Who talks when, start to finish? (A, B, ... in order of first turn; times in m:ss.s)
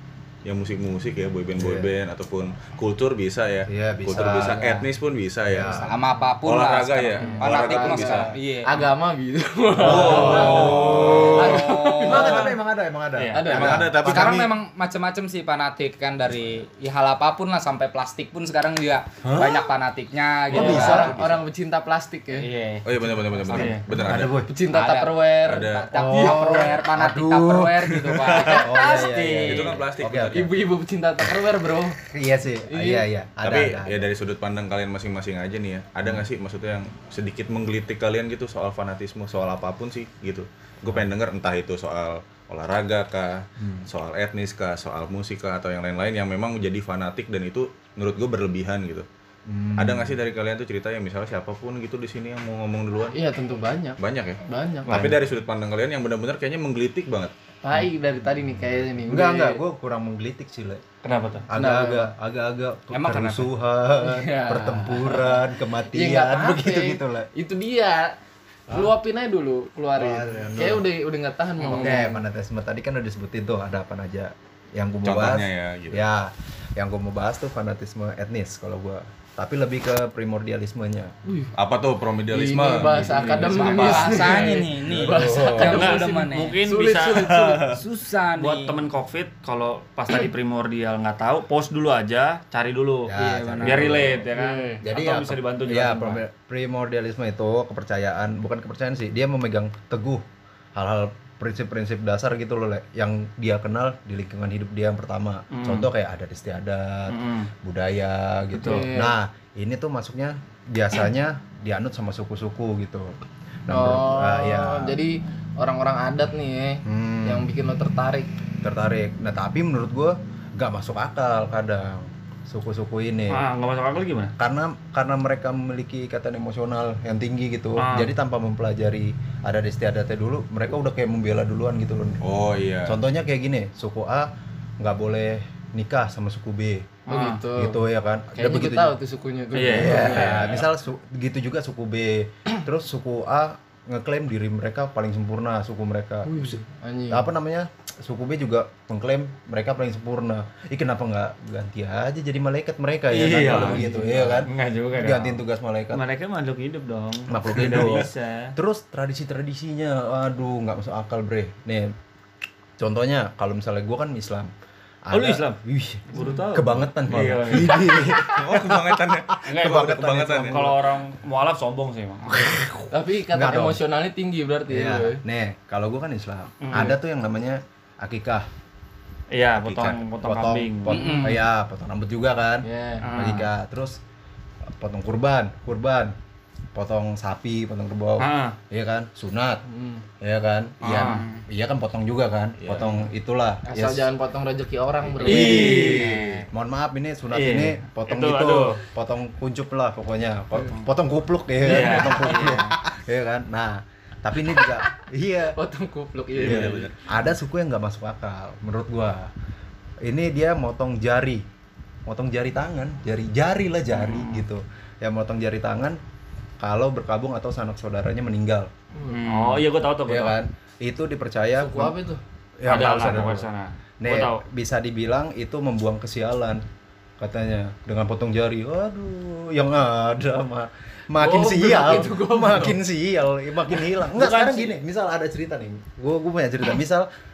0:00.4-0:05.9 A
0:01.6-0:01.9 B
0:03.7-0:04.6 B
0:05.5-0:05.9 B
0:05.6-0:08.8 C
0:06.4-0:08.3 A
0:07.2-0:12.6 D
0:08.0-0:08.3 B
0:09.8-0:12.1 A
0:09.8-0:10.7 E
0:09.8-0:14.5 B
0:09.9-0:12.5 C
0:13.2-0:13.7 E
0:13.3-0:13.9 D
0:13.5-0:14.5 A
0:14.0-0:21.2 C
0:19.2-0:19.7 B
0:20.5-0:21.3 B
0:20.5-0:22.5 D
0:20.8-0:21.4 A
0:22.4-0:22.8 C
0:22.8-0:24.4 A
0:23.5-0:23.8 E
0:24.0-0:24.5 B
0:24.1-0:26.8 D
0:24.7-0:29.8 C
0:25.5-0:25.9 A
0:26.0-0:30.5 B
0:28.1-0:28.7 A
0:28.9-0:29.6 D
0:29.5-0:30.6 A
0:30.2-0:32.0 D
0:32.1-0:34.1 B
0:32.7-0:33.1 D
0:33.4-0:49.1 A
0:43.6-0:43.9 B
0:49.5-0:50.2 B
0:49.8-0:53.2 A
0:53.1-0:55.2 D
0:54.0-0:57.3 A
0:57.6-0:59.6 D
0:59.1-1:00.8 B
1:01.0-1:01.5 E
1:01.5-1:07.3 B
1:01.5-1:02.1 D
1:02.9-1:03.5 C
1:04.0-1:08.2 D
1:08.7-1:12.2 D
1:10.0-1:10.9 B
1:11.6-1:21.1 B
1:15.0-1:16.0 A
1:21.3-1:21.5 D
1:21.6-1:24.5 A
1:22.3-1:27.7 D
1:23.1-1:23.5 E
1:23.3-1:26.6 C
1:23.8-1:25.8 B
1:25.6-1:27.4 E
1:27.1-1:27.8 A
1:27.7-1:28.8 C
1:28.4-1:36.2 E
1:33.1-1:34.2 B
1:33.2-1:34.0 C
1:34.4-1:34.8 D
1:34.8-1:40.2 B
1:40.8-1:53.2 B
1:45.5-1:45.9 E
1:47.1-1:47.5 E
1:48.5-1:48.8 E
1:48.6-1:49.2 D
1:53.7-1:55.0 B
1:53.7-1:58.3 D
1:56.8-1:57.5 B
1:58.6-2:03.4 B
2:03.3-2:04.3 E
2:04.4-2:12.2 B
2:07.8-2:08.1 E
2:12.2-2:13.0 A
2:12.8-2:16.8 B
2:17.1-2:17.4 E
2:17.1-2:17.8 D
2:17.6-2:19.0 B
2:18.4-2:20.6 D
2:19.5-2:20.3 E
2:19.7-2:36.0 B
2:20.0-2:20.6 A
2:26.3-2:27.3 D
2:33.1-2:35.4 E
2:33.5-2:34.4 D
2:35.9-2:38.6 E
2:37.3-2:41.9 B
2:42.8-2:44.5 B
2:45.0-2:50.8 B
2:45.1-2:45.6 E
2:46.1-2:48.1 E
2:46.2-2:46.4 D
2:47.1-2:50.6 A
2:49.5-2:52.3 E
2:52.3-2:53.8 B
2:52.9-2:55.2 D
2:54.7-2:58.5 B
2:56.6-2:57.0 E
2:59.3-3:01.2 E
2:59.7-3:00.0 A
3:00.2-3:04.0 B
3:00.9-3:01.4 C
3:02.6-3:03.1 D
3:03.0-3:03.5 E
3:04.7-3:06.1 B
3:06.8-3:09.6 B
3:08.2-3:08.6 E
3:09.7-3:10.0 D
3:10.2-3:14.1 B
3:10.8-3:11.3 E
3:10.9-3:11.4 C
3:12.6-3:13.0 A
3:13.7-3:16.4 D
3:15.1-3:25.6 B
3:15.2-3:16.4 E
3:17.3-3:18.8 E
3:21.6-3:22.7 E
3:21.9-3:22.6 D
3:25.6-3:26.9 D
3:26.4-3:26.9 A
3:26.4-3:29.3 B
3:30.0-3:31.4 B
3:32.1-3:36.0 B
3:34.0-3:34.4 E
3:36.6-3:38.7 B
3:39.0-3:39.2 D
3:39.1-3:39.6 C
3:39.2-3:40.4 E
3:40.1-3:42.0 B
3:41.6-3:42.2 D
3:42.6-3:43.5 B
3:42.7-3:44.4 E
3:44.0-3:46.6 B
3:47.2-3:57.1 B
3:51.2-3:52.8 D
3:54.1-3:54.8 E